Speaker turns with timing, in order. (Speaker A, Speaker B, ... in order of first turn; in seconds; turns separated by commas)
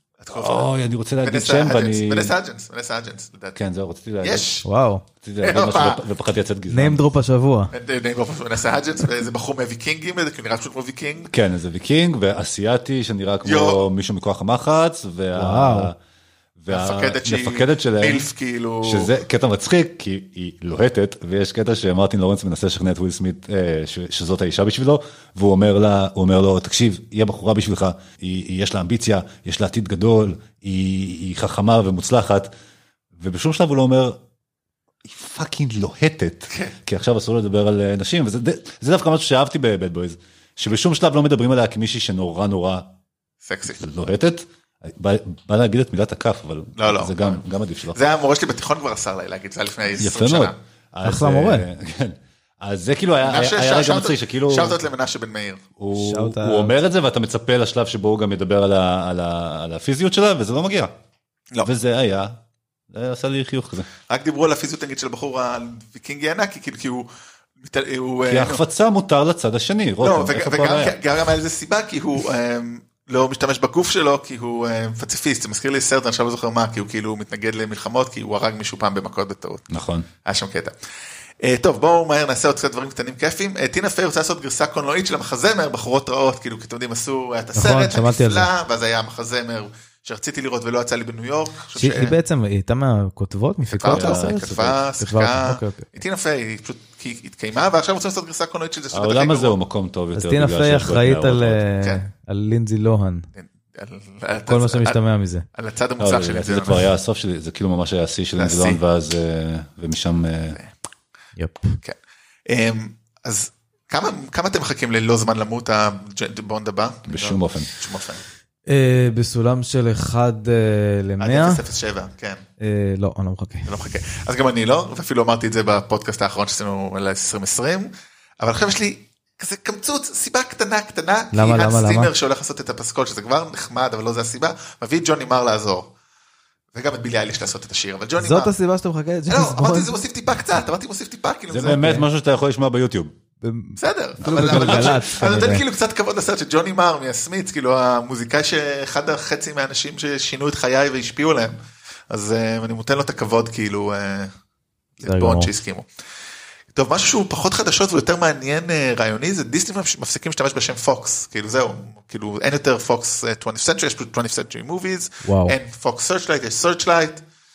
Speaker A: 0.2-0.7, Speaker B: 0.3-2.3, Speaker A: 1.2-3.6, Speaker B: 3.5-4.6, Speaker A: 4.2-4.7, Speaker C: 4.6-5.0, Speaker B: 5.2-7.0, Speaker A: 5.4-6.0, Speaker C: 6.7-7.7, Speaker A: 7.7-11.3, Speaker B: 11.3-16.0, Speaker A: 13.4-13.9, Speaker C: 15.3-15.9, Speaker B: 16.6-18.3, Speaker A: 16.7-19.1, Speaker B: 18.8-32.5, Speaker B: 33.2-34.2, Speaker B: 35.0-42.9, Speaker A: 36.5-36.8, Speaker A: 43.4-43.8, Speaker B: 43.7-48.0, Speaker A: 46.8-47.4, Speaker A: 47.9-50.5, Speaker B: 50.0-54.8, Speaker C: 51.0-51.7, Speaker A: 53.2-55.6, Speaker B: 55.8-60.9, Speaker C: 55.9-56.8, Speaker B: 61.6-62.4, Speaker B: 62.9-63.9, Speaker A: 64.1-67.1, Speaker A: 67.6-68.6, Speaker B: 68.2-71.0, Speaker A: 70.0-79.7, Speaker B: 79.7-80.1, Speaker A: 80.2-80.7, Speaker A: 81.4-92.2, Speaker C: 87.5-88.5, Speaker C: 91.8-95.9, Speaker A: 93.7-99.6, Speaker B: 93.9-94.8, Speaker B: 98.9-101.6, Speaker C: 100.2-103.3, Speaker A: 103.4-105.0, Speaker C: 104.5-105.5, Speaker A: 105.5-106.9, Speaker B: 106.0-110.6, Speaker A: 108.4-108.8, Speaker C: 111.4-111.8, Speaker A: 111.8-118.2, Speaker B: 117.1-117.7, Speaker C: 118.7-121.6, Speaker A: 121.2-122.4, Speaker C: 122.6-123.7, Speaker A: 123.7-135.9, Speaker C: 131.3-132.1, Speaker A: 136.7-138.5, Speaker C: 138.2-139.9, Speaker A: 139.3-141.9, Speaker B: 141.5-143.1, Speaker C: 141.7-142.0, Speaker C: 143.4-145.7, Speaker A: 143.8-151.6, Speaker B: 144.2-145.0, Speaker A: 152.1-154.3, Speaker A: 155.0-155.9, Speaker C: 155.0-155.5, Speaker A: 156.7-167.2, Speaker C: 165.2-165.6